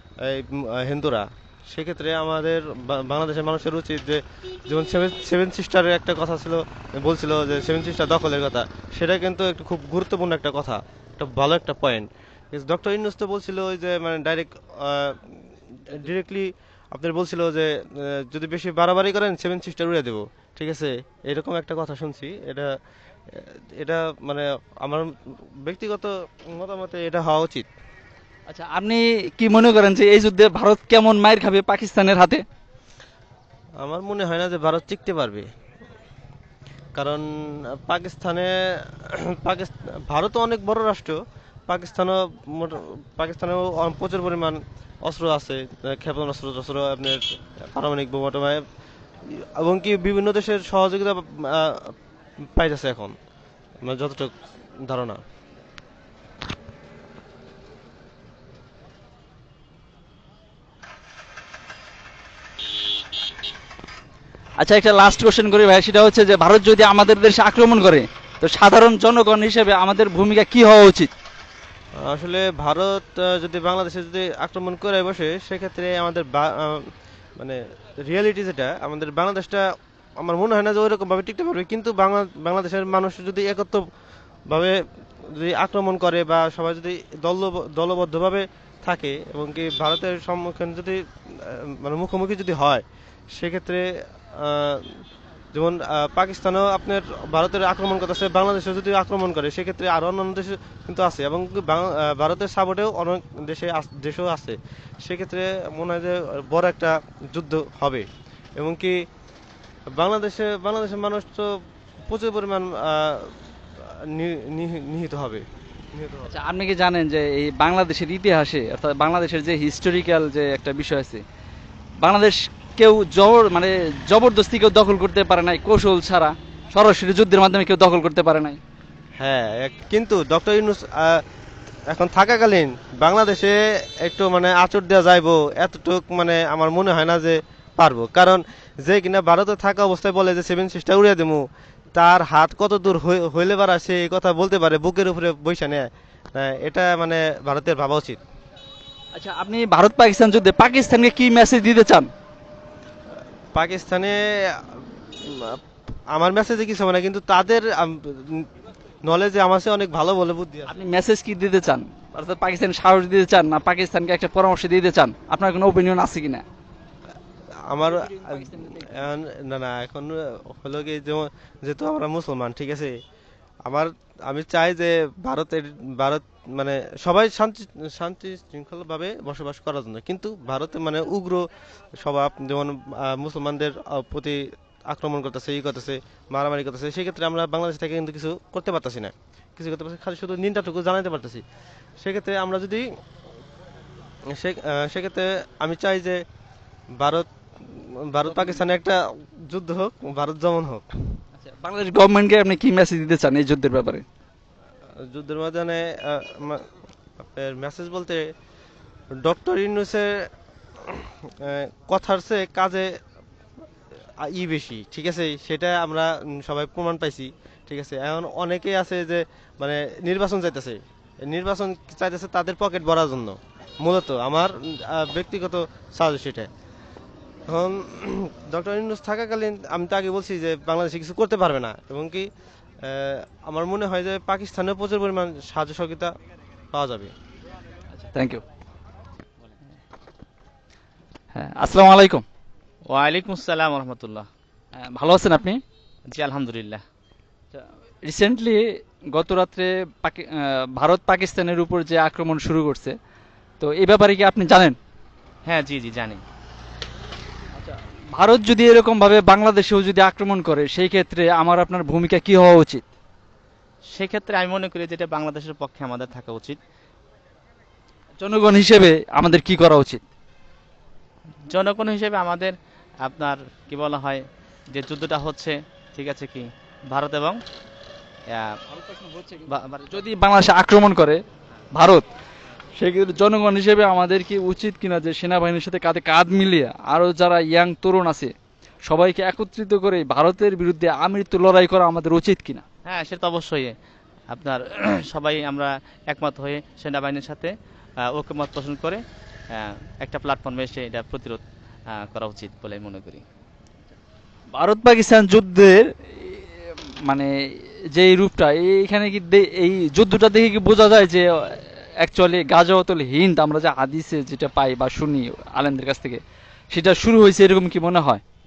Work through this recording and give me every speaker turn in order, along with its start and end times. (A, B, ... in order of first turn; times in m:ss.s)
0:00.2-0:22.7 A
0:23.3-0:25.1 A
0:25.6-0:27.7 A
0:28.5-0:32.4 B
0:33.8-0:35.5 A
0:37.0-0:37.2 A
0:37.8-0:41.2 A
0:41.7-0:47.2 A
0:47.7-0:48.6 A
0:49.3-0:51.9 A
0:52.6-0:53.1 A
0:53.8-0:54.3 A
0:54.8-0:55.2 A
1:04.6-1:11.1 B
1:12.0-1:16.8 A
1:17.4-1:19.6 A
1:20.2-1:23.8 A
1:24.5-1:24.8 A
1:25.3-1:32.8 A
1:33.4-1:33.9 A
1:34.4-1:35.0 A
1:35.5-1:49.0 A
1:50.0-1:51.5 A
1:52.1-1:53.3 A
1:53.9-1:56.3 A
1:56.3-2:01.2 B
2:02.0-2:08.6 B
2:09.2-2:11.2 A
2:11.9-2:21.4 A
2:22.0-2:28.2 A
2:29.1-2:32.1 B
2:33.6-2:35.6 A
2:36.1-2:38.5 A
2:39.1-2:40.7 A
2:40.7-2:46.4 B
2:47.7-2:52.9 A
2:47.8-2:48.9 B
2:53.7-3:01.4 A
3:02.0-3:11.4 A
3:12.0-3:12.9 A
3:14.4-3:16.2 A
3:17.0-3:20.9 A
3:18.3-3:18.6 B
3:21.4-3:24.0 B
3:25.1-3:26.6 A
3:27.2-3:28.2 A
3:29.2-3:30.1 A
3:30.8-3:32.9 A
3:34.2-3:46.5 A
3:47.5-3:52.3 A
3:52.8-3:56.1 A
3:56.7-3:57.1 A
3:57.9-3:58.4 B
4:01.4-4:02.2 B
4:02.9-4:04.3 C
4:04.8-4:05.6 B
4:06.1-4:06.8 C
4:07.5-4:13.0 B
4:13.6-4:14.8 B
4:15.5-4:16.2 C
4:17.6-4:22.9 B
4:23.9-4:26.6 C
4:28.2-4:30.0 B
4:31.5-4:37.4 C
4:38.7-4:41.2 B
4:39.5-4:40.0 C
4:41.8-4:42.0 B
4:42.8-4:48.3 B
4:48.9-4:52.6 B
4:52.9-4:53.7 C
4:54.3-4:57.5 C
4:58.1-4:59.0 C
4:59.6-5:01.4 C
5:01.9-5:03.2 C
5:04.6-5:06.4 B
5:07.9-5:11.2 B
5:12.0-5:16.2 B
5:16.7-5:18.2 B